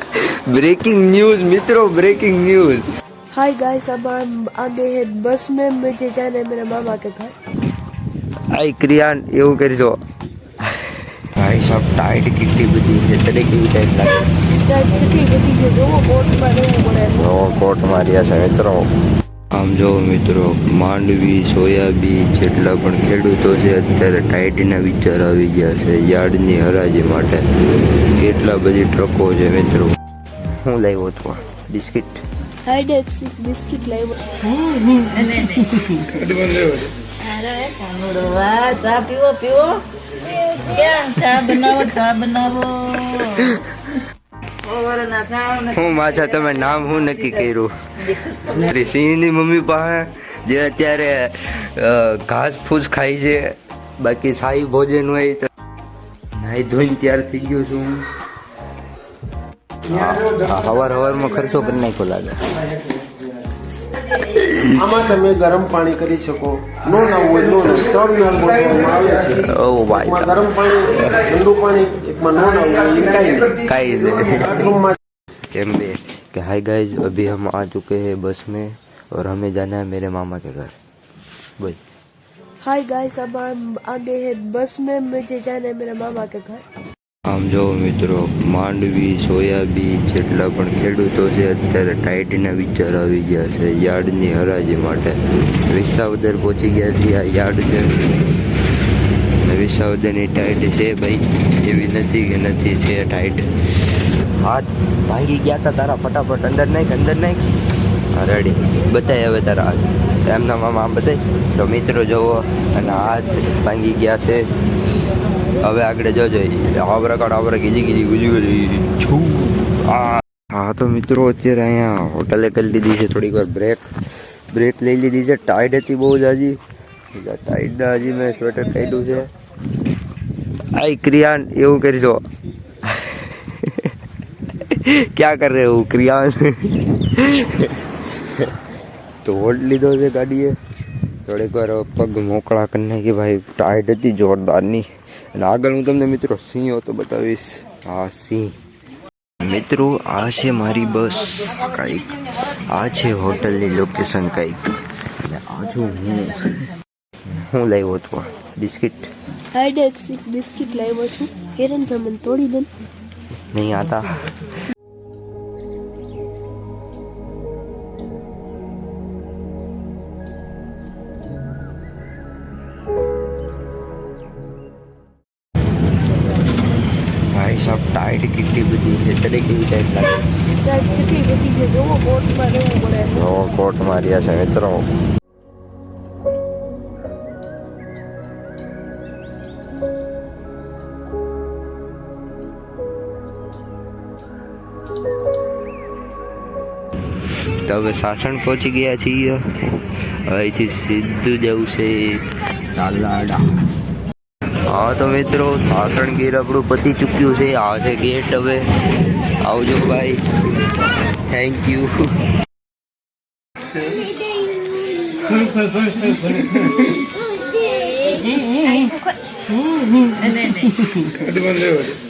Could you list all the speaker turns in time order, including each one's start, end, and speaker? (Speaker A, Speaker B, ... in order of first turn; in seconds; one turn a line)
Speaker A: 0.1-2.9
Speaker B: 3.3-7.3
Speaker A: 8.5-10.0
Speaker A: 11.4-14.6
Speaker B: 14.7-17.3
Speaker A: 17.2-18.9
Speaker A: 19.5-27.4
Speaker A: 28.2-29.9
Speaker A: 30.5-32.2
Speaker B: 32.7-34.1
Speaker C: 35.0-35.6
Speaker A: 36.1-36.9
Speaker C: 37.2-43.4
Speaker C: 44.7-47.5
Speaker A: 45.7-47.7
Speaker C: 48.0-48.7
Speaker A: 48.6-55.5
Speaker A: 56.4-58.0
Speaker A: 59.9-62.4
Speaker A: 64.3-64.8
Speaker D: 64.7-73.6
Speaker A: 69.5-70.5
Speaker A: 73.6-74.7
Speaker D: 74.3-75.0
Speaker A: 75.5-80.7
Speaker B: 82.6-86.6
Speaker A: 87.3-95.2
Speaker A: 95.7-97.9
Speaker A: 99.5-103.5
Speaker A: 104.4-107.4
Speaker A: 108.1-114.5
Speaker A: 115.6-123.8
Speaker A: 124.5-126.6
Speaker A: 127.1-129.3
Speaker A: 130.8-132.2
Speaker A: 132.9-133.9
Speaker A: 134.7-137.8
Speaker A: 139.2-140.6
Speaker A: 141.2-148.5
Speaker A: 149.4-156.6
Speaker A: 157.3-159.1
Speaker B: 159.5-162.7
Speaker A: 163.5-164.3
Speaker A: 177.3-180.5
Speaker B: 180.7-183.3
Speaker A: 183.1-184.8
Speaker A: 197.7-199.4
Speaker A: 200.3-202.2
Speaker A: 202.8-203.4
Speaker A: 204.7-208.6
Speaker A: 209.4-210.2
Speaker A: 211.3-211.9
Speaker C: 217.5-219.2
Speaker C: 220.1-220.7
Speaker A: 221.2-221.9